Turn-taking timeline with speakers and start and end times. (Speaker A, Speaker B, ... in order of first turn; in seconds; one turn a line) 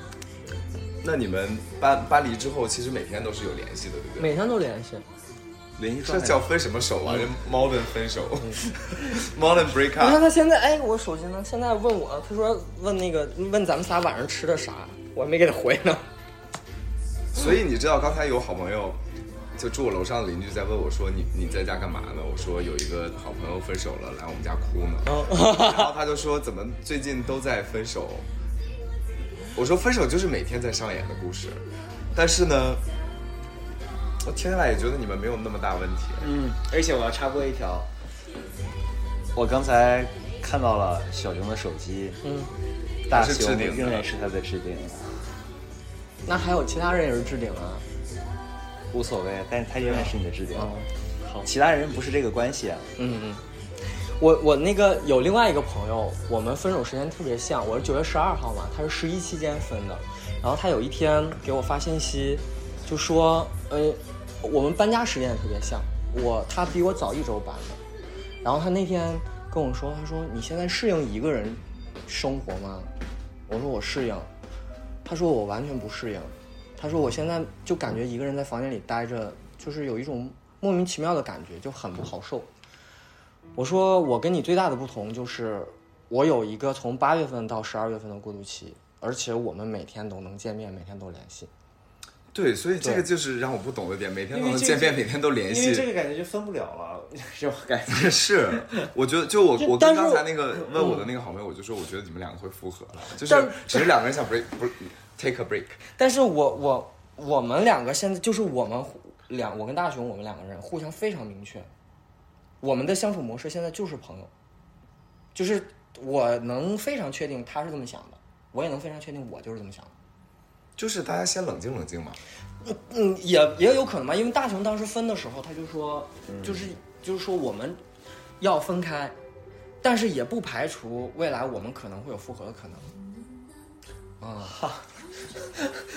Speaker A: 1.0-4.3
Speaker B: 4.2-5.0
Speaker C: 5.8-6.4
Speaker A: 6.0-10.2
Speaker B: 10.0-16.0
Speaker A: 17.3-19.0
Speaker A: 19.5-28.3
Speaker B: 25.0-25.9
Speaker A: 29.5-32.8
Speaker A: 34.2-36.3
Speaker C: 36.2-37.9
Speaker C: 39.3-42.2
Speaker B: 42.2-42.5
Speaker C: 43.1-45.4
Speaker A: 43.1-44.1
Speaker B: 46.2-47.8
Speaker C: 48.9-50.9
Speaker B: 49.9-51.5
Speaker C: 51.4-52.9
Speaker B: 53.0-67.8
Speaker B: 68.4-72.9
Speaker B: 73.5-74.3
Speaker B: 75.0-82.5
Speaker B: 83.5-91.5
Speaker A: 92.3-95.9
Speaker C: 94.3-98.8
Speaker A: 97.9-105.8
Speaker B: 99.6-101.0
Speaker B: 103.2-103.9
Speaker B: 106.0-111.7
Speaker B: 112.6-114.3
Speaker B: 115.3-119.9
Speaker A: 120.8-122.2
Speaker B: 122.6-127.8
Speaker C: 126.3-126.7
Speaker B: 128.4-129.2
Speaker B: 129.8-132.9
Speaker B: 134.2-134.6
Speaker C: 134.6-134.8